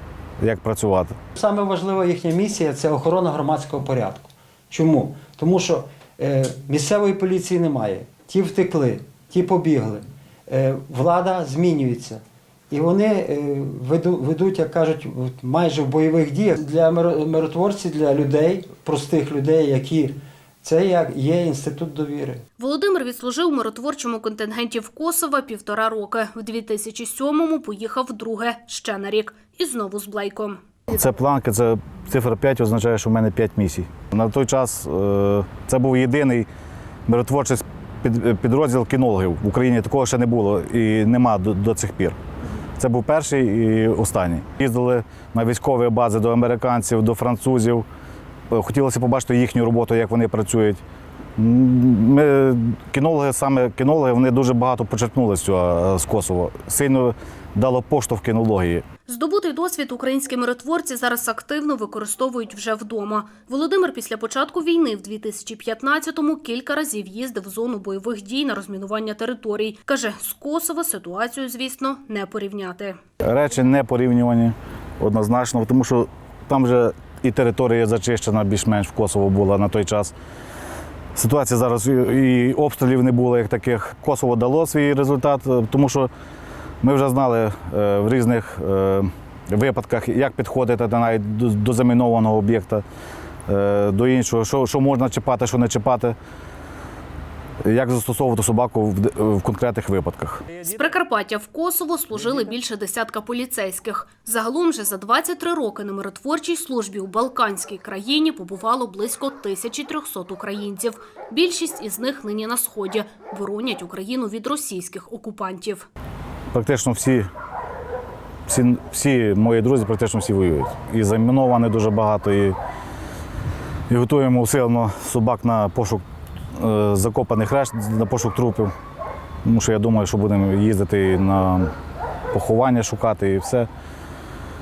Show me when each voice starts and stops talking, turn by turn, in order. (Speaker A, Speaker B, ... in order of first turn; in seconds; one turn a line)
Speaker A: 0.4-1.2
Speaker B: 1.4-22.4
Speaker C: 22.6-30.6
Speaker A: 30.9-36.5
Speaker A: 37.1-42.2
Speaker A: 42.8-47.9
Speaker A: 48.5-50.8
Speaker A: 51.4-58.8
Speaker C: 59.1-73.0
Speaker A: 73.2-80.1
Speaker A: 81.1-86.1
Speaker A: 86.8-92.8
Speaker A: 93.5-96.2
Speaker A: 97.6-100.4
Speaker C: 100.6-115.8
Speaker A: 116.5-117.3
Speaker A: 118.5-122.5
Speaker A: 123.9-126.0
Speaker A: 126.5-128.7
Speaker A: 129.4-131.7
Speaker A: 132.3-133.7